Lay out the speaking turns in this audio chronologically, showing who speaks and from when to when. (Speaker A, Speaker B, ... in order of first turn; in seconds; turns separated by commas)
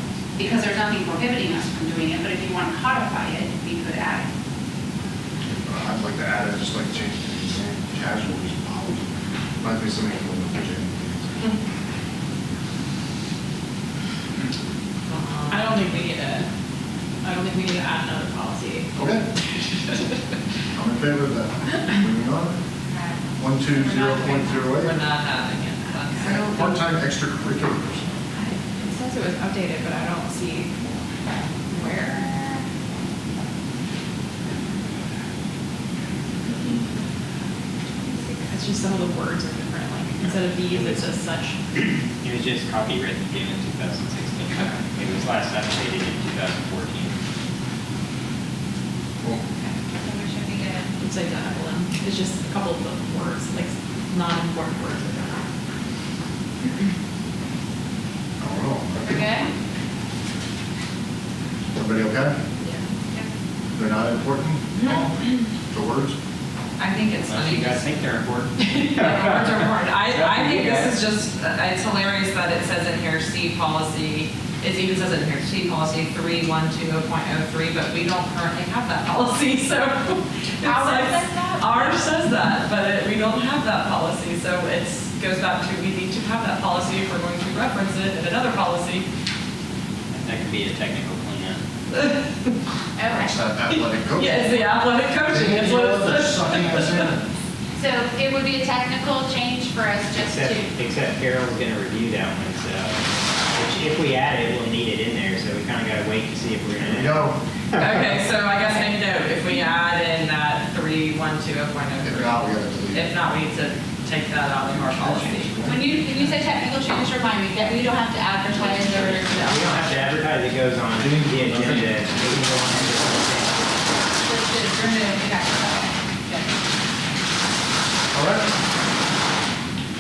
Speaker A: 0.3-4.3, Speaker B: 5.5-11.6, Speaker C: 15.1-16.0, Speaker D: 15.5-16.5, Speaker D: 17.2-19.2, Speaker B: 19.0-19.3, Speaker D: 19.8-20.2, Speaker B: 20.7-22.6, Speaker B: 23.4-25.0, Speaker C: 23.7-26.6, Speaker D: 25.9-26.7, Speaker B: 26.2-28.2, Speaker D: 28.4-30.7, Speaker D: 31.7-32.6, Speaker D: 38.5-41.9, Speaker E: 40.7-41.0, Speaker E: 42.2-47.2, Speaker D: 44.5-44.9, Speaker F: 49.6-51.0, Speaker D: 51.0-55.4, Speaker B: 58.4-59.4, Speaker F: 59.1-59.5, Speaker B: 61.8-62.4, Speaker B: 63.7-66.2, Speaker C: 66.8-67.9, Speaker E: 67.2-71.0, Speaker C: 68.6-89.1, Speaker F: 80.6-82.2, Speaker E: 90.1-91.6, Speaker C: 91.9-92.5, Speaker F: 93.0-93.3, Speaker B: 93.1-94.6, Speaker C: 94.2-97.1, Speaker B: 95.3-97.2, Speaker F: 97.8-100.8, Speaker E: 100.2-107.3, Speaker B: 106.8-107.4, Speaker C: 107.8-116.5, Speaker B: 112.0-113.2, Speaker B: 114.7-115.9, Speaker F: 115.7-119.7, Speaker E: 118.5-123.8, Speaker B: 121.0-122.1, Speaker F: 124.2-126.5, Speaker B: 128.1-128.5